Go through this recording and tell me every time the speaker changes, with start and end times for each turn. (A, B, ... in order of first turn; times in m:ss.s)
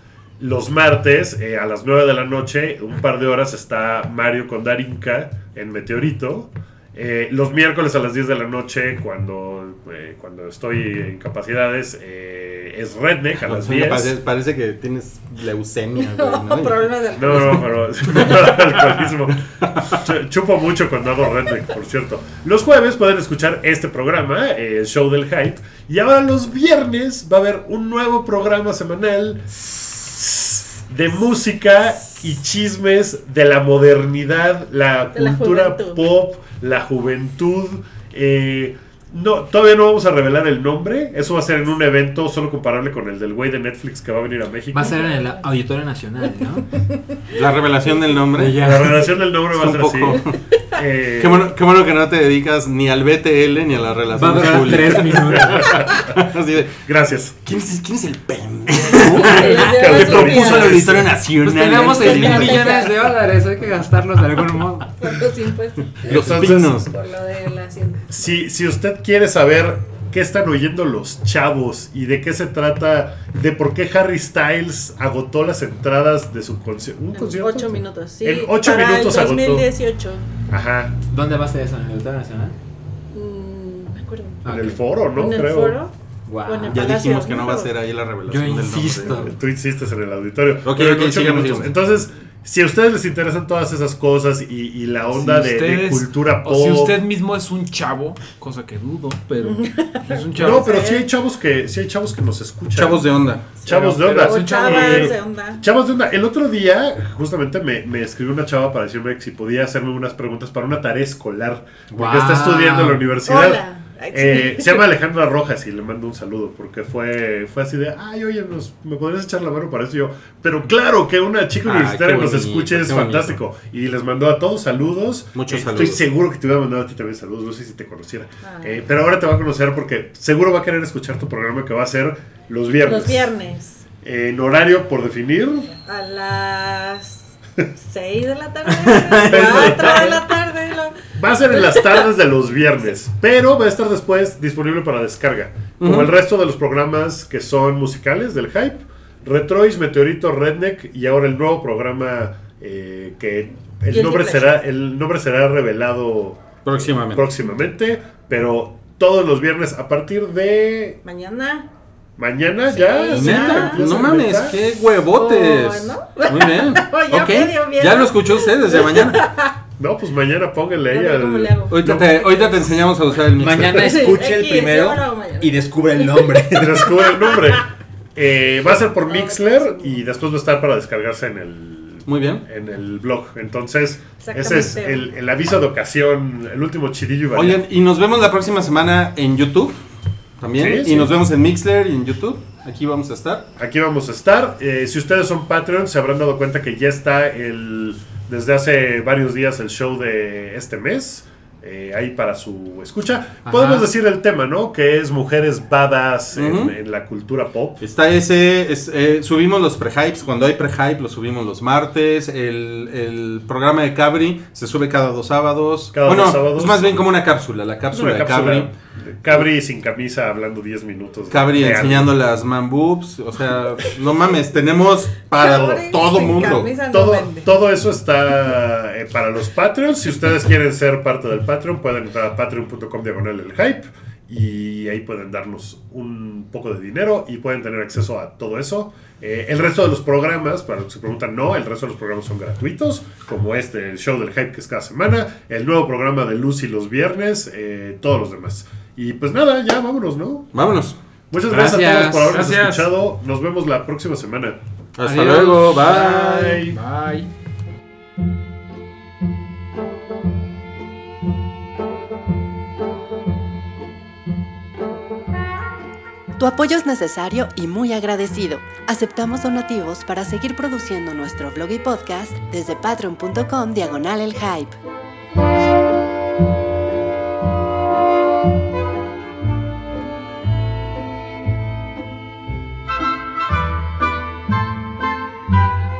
0:00.4-0:14.1 A
0:13.4-0:20.0 B
0:16.0-0:17.9 C
0:17.1-0:44.9 A
0:35.1-0:36.1 C
0:44.7-0:46.7 D
0:47.3-0:48.7 B
0:48.3-0:49.1 D
0:48.5-0:51.5 A
0:49.5-0:50.4 B
0:51.2-0:56.8 B
0:54.1-0:55.8 D
0:55.4-0:56.1 A
0:56.8-0:57.4 A
0:57.4-1:02.9 B
0:58.9-1:00.9 C
0:59.0-1:01.2 A
1:01.4-1:05.0 D
1:01.8-1:02.9 C
1:04.9-1:08.1 C
1:06.0-1:06.9 B
1:06.0-1:06.8 A
1:08.1-1:19.7 A
1:17.1-1:20.3 C
1:20.5-1:20.9 A
1:21.1-1:22.6 D
1:23.1-1:24.4 C
1:24.4-1:24.8 D
1:24.4-1:25.8 A
1:25.1-1:25.9 C
1:26.2-1:26.8 D
1:26.4-1:27.7 C
1:26.7-1:29.3 B
1:28.3-1:29.3 D
1:29.0-1:37.0 A
1:30.6-1:31.8 B
1:35.1-1:40.9 E
1:39.4-1:41.1 C
1:40.4-1:43.1 A
1:42.7-1:43.5 B
1:43.6-2:13.3 A
1:43.6-1:45.1 E
1:44.1-1:45.6 C
1:51.9-1:53.0 D
1:53.2-1:54.9 C
2:01.6-2:03.4 B
2:05.3-2:06.0 B
2:08.4-2:08.8 C
2:12.8-2:13.8 C
2:14.0-2:15.7 A
2:15.7-2:22.1 C
2:18.7-2:20.0 B
2:19.3-2:20.3 A
2:21.2-2:41.0 A
2:25.8-2:26.1 B
2:33.9-2:34.6 C
2:36.6-2:37.3 B
2:41.0-2:41.7 C
2:42.2-2:44.6 A
2:42.7-2:44.0 C
2:43.1-2:49.3 B
2:45.1-2:49.6 C
2:49.8-2:52.1 A
2:50.9-2:52.8 C
2:51.7-2:54.0 B
2:53.4-2:56.9 D
2:53.7-2:57.6 C
2:56.6-3:07.6 A
2:59.0-3:00.0 C
3:02.0-3:02.5 B
3:04.2-3:05.1 C
3:07.3-3:09.7 B
3:10.4-3:13.5 B
3:10.6-3:11.2 A
3:13.6-3:27.8 A
3:23.4-3:23.9 D
3:26.3-3:26.8 B
3:27.8-3:38.7 B
3:35.9-3:37.0 A
3:37.9-3:42.1 A
3:41.3-3:46.7 B
3:45.3-3:47.5 C
3:45.4-3:45.9 A
3:46.9-4:10.5 A
4:10.5-4:11.0 B
4:11.3-4:14.6 A
4:11.5-4:12.3 D
4:11.5-4:12.9 E
4:15.0-4:16.3 B
4:15.0-4:17.3 E
4:15.8-4:16.8 A
4:26.4-4:34.8 F